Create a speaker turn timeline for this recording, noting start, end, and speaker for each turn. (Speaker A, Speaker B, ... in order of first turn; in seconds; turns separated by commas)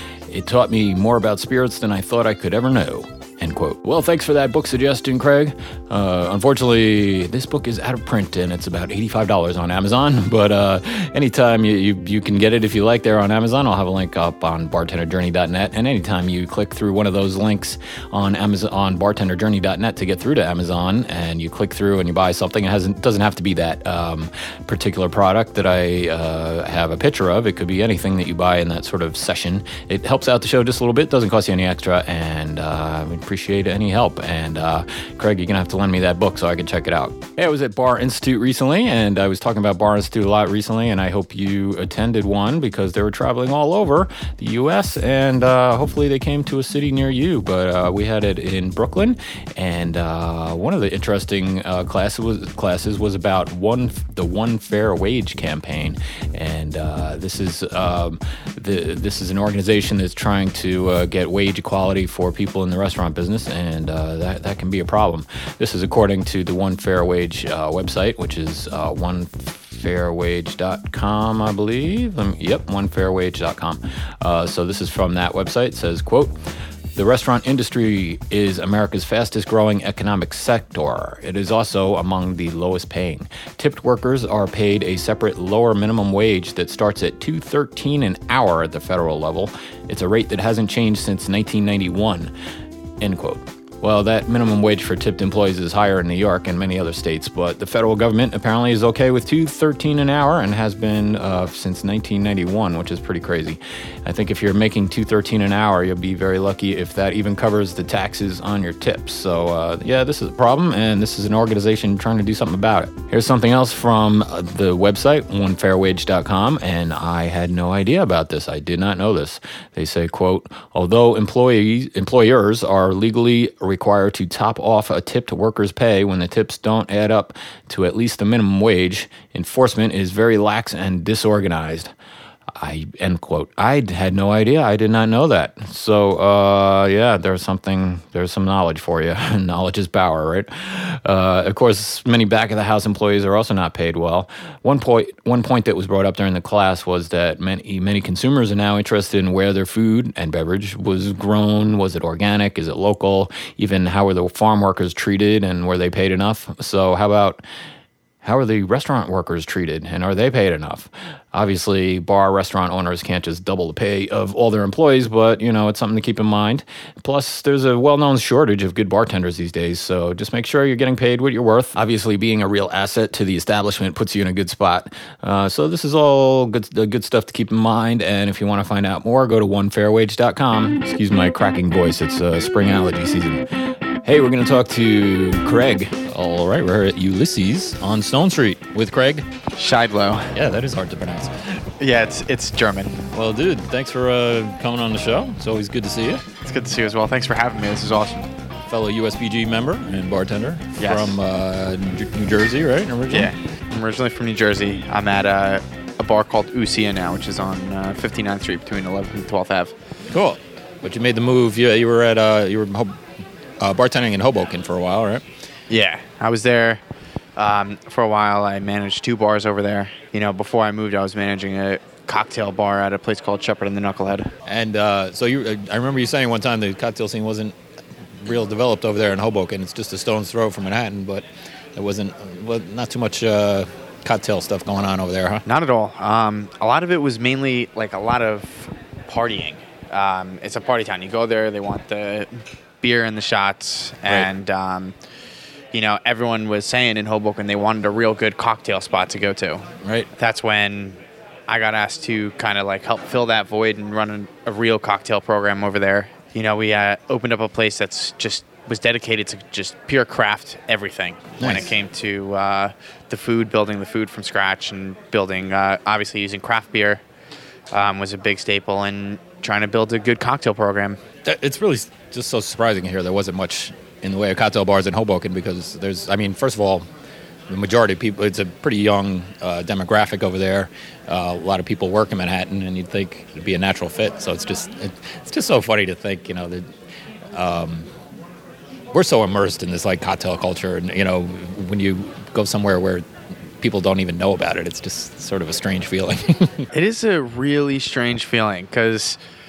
Speaker A: 0.3-76.3, Speaker A: 76.9-92.3, Speaker A: 93.0-131.9, Speaker A: 132.5-157.4, Speaker A: 158.2-183.5, Speaker A: 184.0-186.2, Speaker B: 186.2-189.3, Speaker C: 189.6-190.3, Speaker B: 190.3-191.5, Speaker C: 191.8-193.0, Speaker B: 193.1-196.2, Speaker C: 196.4-198.3, Speaker B: 198.7-203.3, Speaker C: 200.8-201.1, Speaker C: 203.1-209.7, Speaker B: 210.1-213.0, Speaker B: 213.6-215.2, Speaker C: 215.7-216.8, Speaker C: 217.4-224.3, Speaker B: 224.4-227.5, Speaker B: 228.2-231.2, Speaker B: 231.8-235.4, Speaker C: 235.4-244.9, Speaker C: 245.7-267.0, Speaker B: 249.8-250.1, Speaker B: 261.4-261.7, Speaker C: 267.7-271.0, Speaker B: 271.2-276.9, Speaker B: 277.5-286.6, Speaker B: 287.3-287.9, Speaker B: 288.9-293.0, Speaker B: 293.6-296.7, Speaker C: 296.7-299.2